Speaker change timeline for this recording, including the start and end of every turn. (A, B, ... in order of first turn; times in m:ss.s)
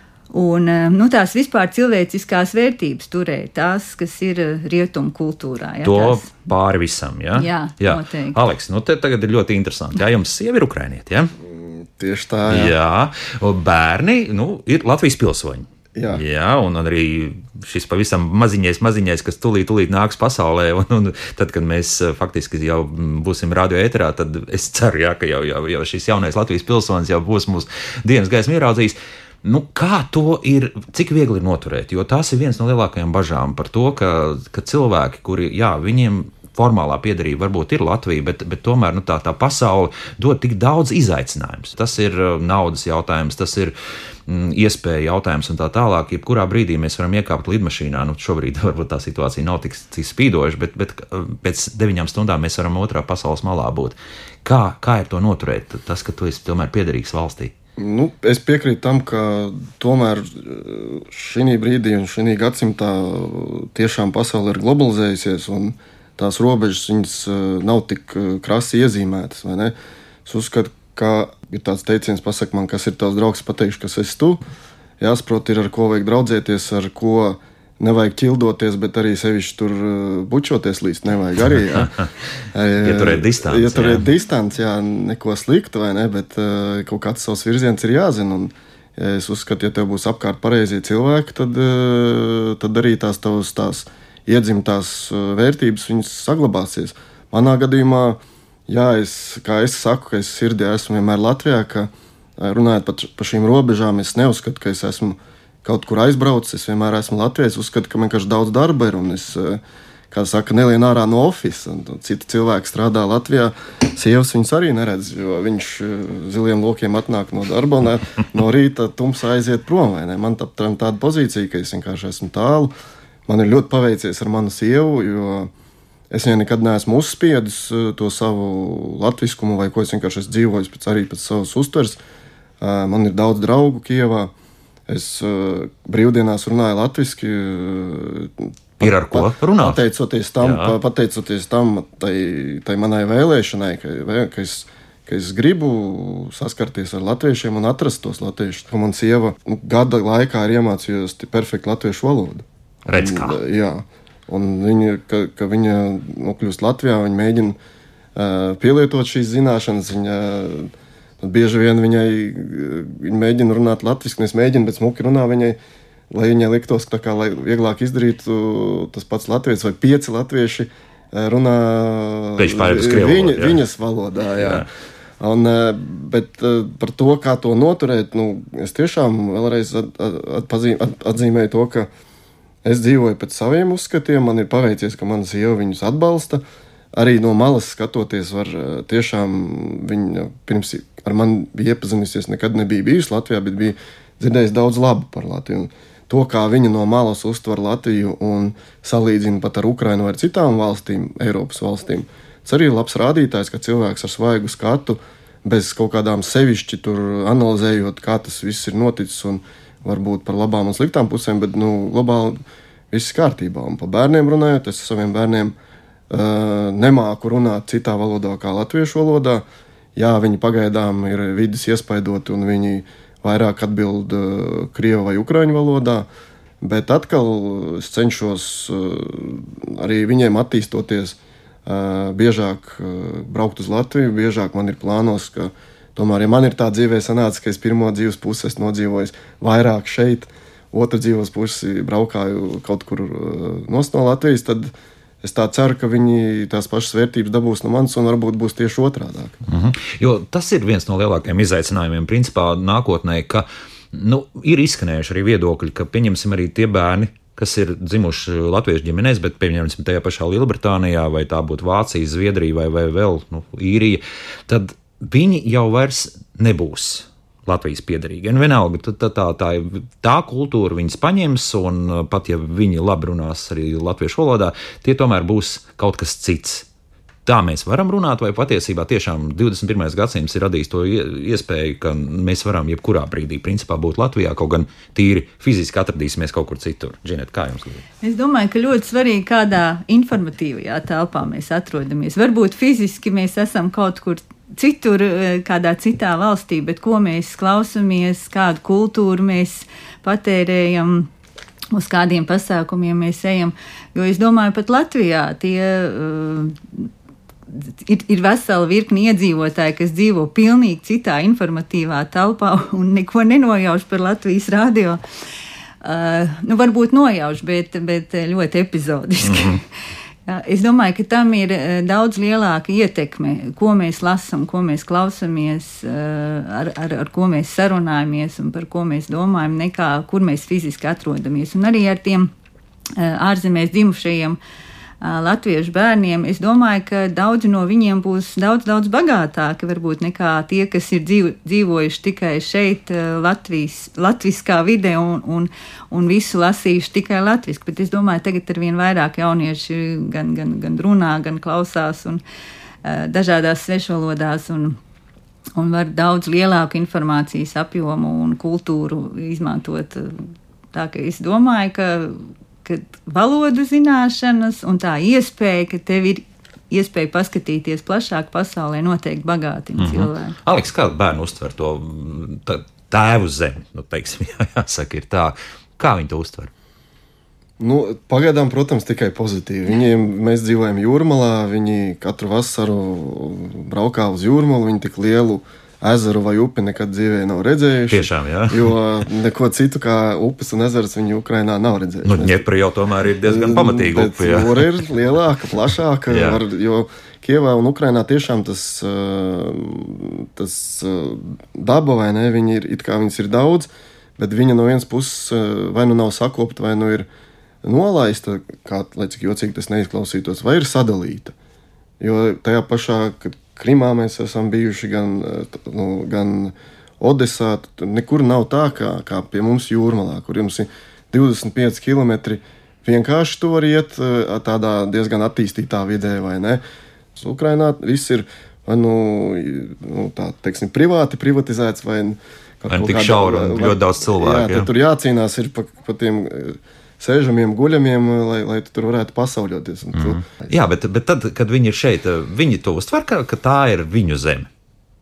0:00.3-0:06.4 A
0:05.8-0:11.3 B
0:07.4-0:08.4 A
0:11.5-0:12.7 C
0:12.5-0:43.7 B
0:15.9-0:16.2 C
0:44.3-0:57.5 B
0:57.8-1:14.4 C
1:15.0-1:21.9 C
1:22.5-2:02.7 C
1:22.8-1:24.1 B
2:03.2-2:05.5 C
2:06.1-2:12.0 C
2:12.6-2:14.3 C
2:14.9-2:37.6 C
2:18.8-2:19.8 B
2:20.4-2:20.8 B
2:32.9-2:33.4 B
2:38.1-2:45.6 C
2:46.1-2:54.7 C
2:52.4-2:53.6 B
2:54.4-2:54.6 B
2:55.2-3:01.9 C
3:02.6-3:06.4 C
3:06.9-3:32.4 C
3:32.9-3:35.5 C
3:36.1-3:39.4 C
3:40.0-3:46.1 C
3:46.6-4:04.7 C
4:05.2-4:09.4 C
4:09.4-4:36.7 B
4:37.2-4:47.8 B
4:48.0-5:01.1 A
5:01.7-5:06.9 A
5:07.5-5:15.0 A
5:15.8-5:19.6 A
5:19.2-5:19.6 B
5:20.3-5:32.3 A
5:33.0-5:34.4 A
5:35.0-5:52.2 A
5:52.8-5:54.8 A
5:55.5-6:10.4 A
6:09.8-6:16.5 B
6:17.6-6:32.4 C
6:27.9-6:28.7 B
6:32.0-6:34.8 B
6:33.2-6:47.1 C
6:36.1-6:36.4 B
6:47.6-6:51.3 C
6:52.0-7:06.6 C
7:07.1-7:20.5 C
7:12.7-7:14.7 B
7:19.9-7:24.5 B